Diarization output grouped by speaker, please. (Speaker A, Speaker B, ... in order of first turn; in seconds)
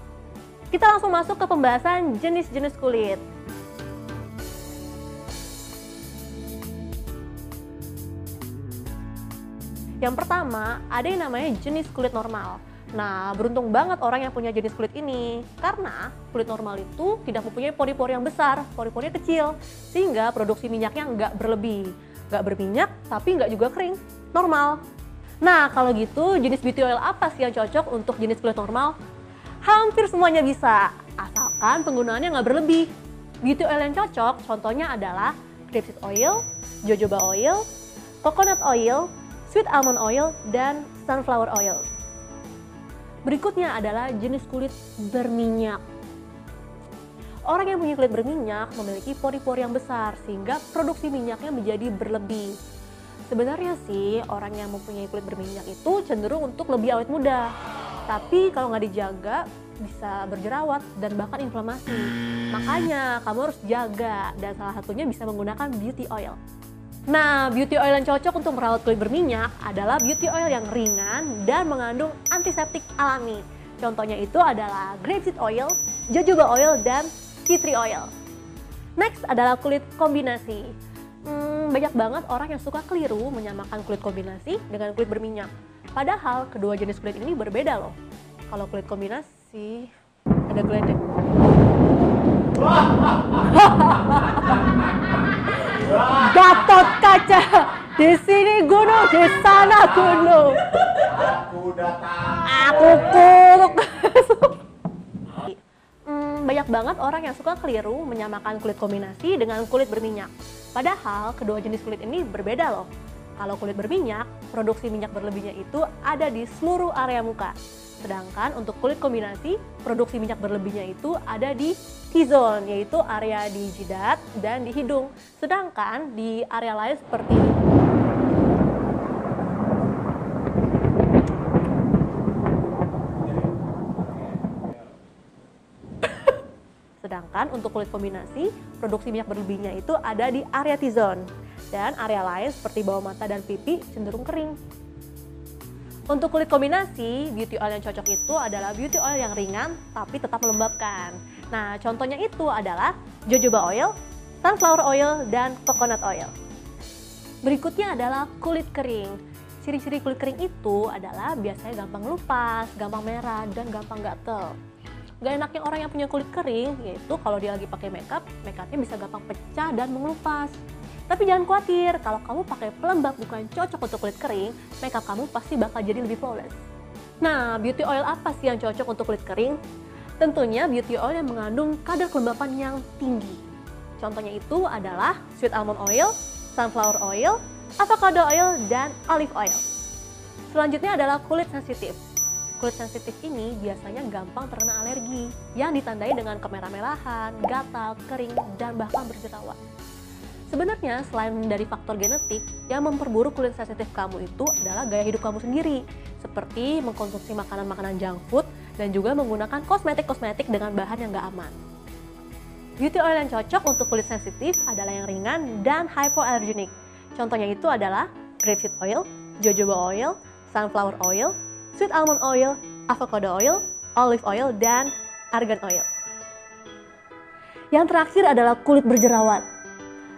Speaker A: 0.7-3.2, 10.0-24.8, 25.4-29.0, 29.6-32.9, 33.4-37.6, 38.2-41.9, 43.2-45.8, 47.5-52.6, 53.3-57.5, 58.1-66.4, 67.1-78.1, 79.0-88.0, 88.5-89.9, 90.5-91.0, 93.3-94.7, 95.5-101.4, 102.2-104.6, 105.3-127.7, 137.0-144.6, 146.1-156.3, 157.4-164.6, 165.2-170.6, 171.1-176.6, 177.2-179.6, 180.2-183.5, 184.0-189.7, 190.5-192.0, 192.6-199.6, 200.5-211.6, 212.8-225.9, 227.7-229.4